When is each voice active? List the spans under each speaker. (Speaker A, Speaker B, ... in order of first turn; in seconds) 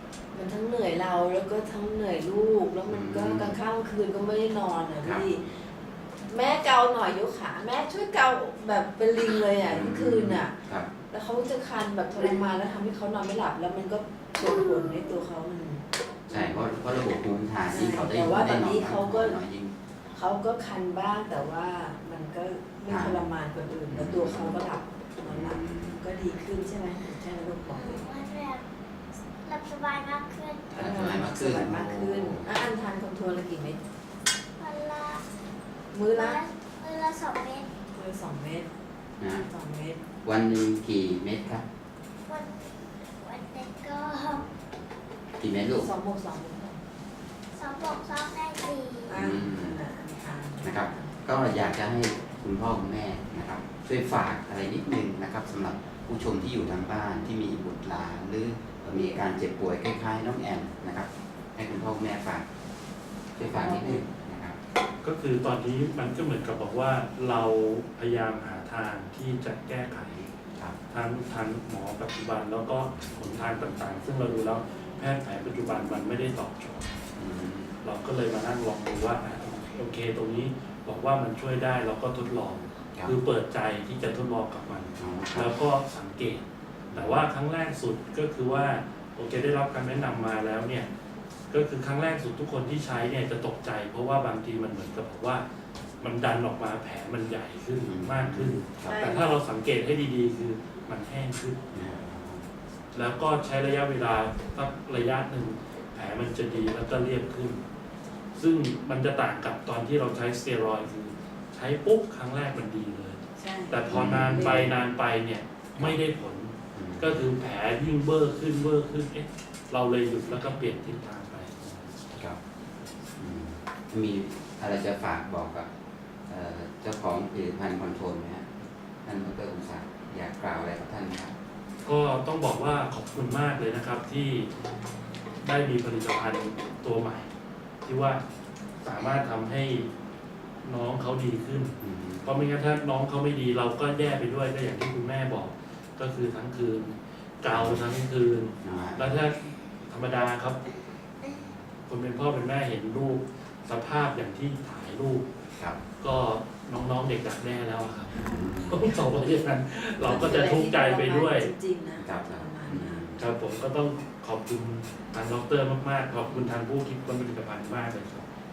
Speaker A: 0.3-5.4, 6.3-10.5, 11.1-16.7, 17.7-19.4, 20.1-28.0, 30.7-33.8, 35.9-36.4, 37.9-38.7, 39.5-40.0, 45.8-46.8, 49.1-51.1, 63.4-64.0, 98.8-99.4, 113.4-114.6, 120.3-120.5, 160.0-163.0
Speaker B: 2.9-3.6, 5.0-5.5, 9.6-10.9, 16.3-19.7, 22.9-23.3, 23.9-24.6, 25.2-26.0, 30.7-32.5, 39.2-39.5, 40.2-41.6, 45.4-45.9, 49.1-49.8, 50.6-62.4, 63.4-64.6, 77.2-77.7, 85.0-85.5, 86.9-87.3, 97.8-99.0, 101.7-102.5, 113.9-114.8, 116.7-117.2, 123.2-125.7, 126.3-128.5, 129.0-131.3, 141.8-142.3, 147.5-147.8, 148.6-149.2, 158.1-158.9, 162.0-163.2
Speaker C: 27.7-28.6, 29.4-30.8, 34.6-35.2, 36.1-37.7, 42.3-44.5, 47.5-49.1
Speaker D: 65.0-70.3, 70.9-76.9, 77.8-90.9, 91.5-95.4, 96.0-101.6, 102.9-107.6, 108.3-121.9, 131.8-134.5, 135.4-137.3, 137.8-138.2, 138.8-139.9, 140.6-150.6, 151.9-155.2, 156.0-161.5, 163.2-168.2